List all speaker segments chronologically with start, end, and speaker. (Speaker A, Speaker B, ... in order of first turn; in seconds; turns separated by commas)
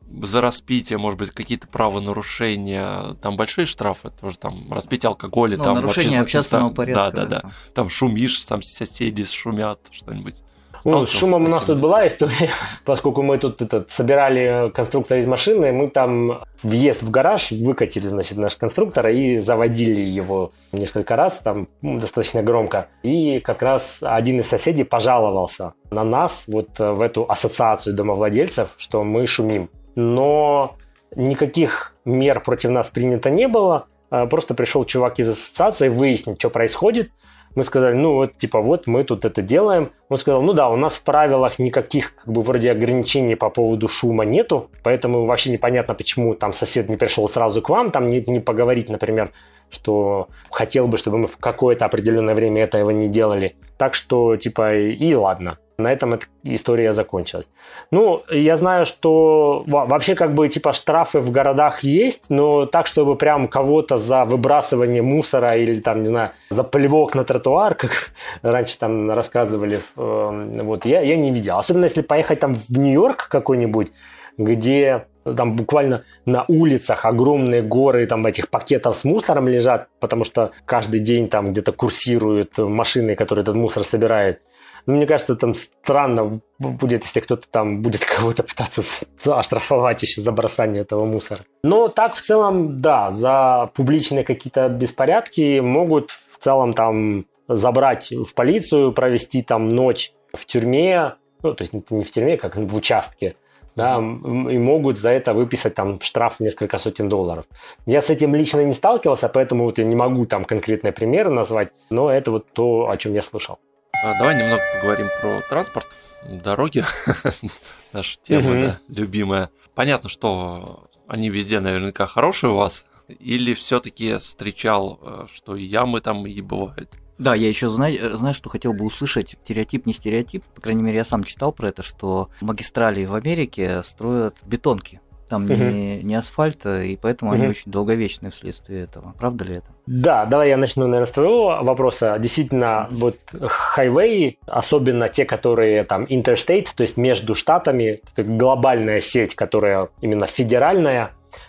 Speaker A: 0.1-11.9, Speaker B: 5.6-7.5, Speaker C: 10.8-113.6, Speaker A: 114.0-127.0, Speaker C: 118.3-118.7, Speaker B: 127.2-139.7, Speaker C: 135.5-135.8, Speaker C: 139.9-151.1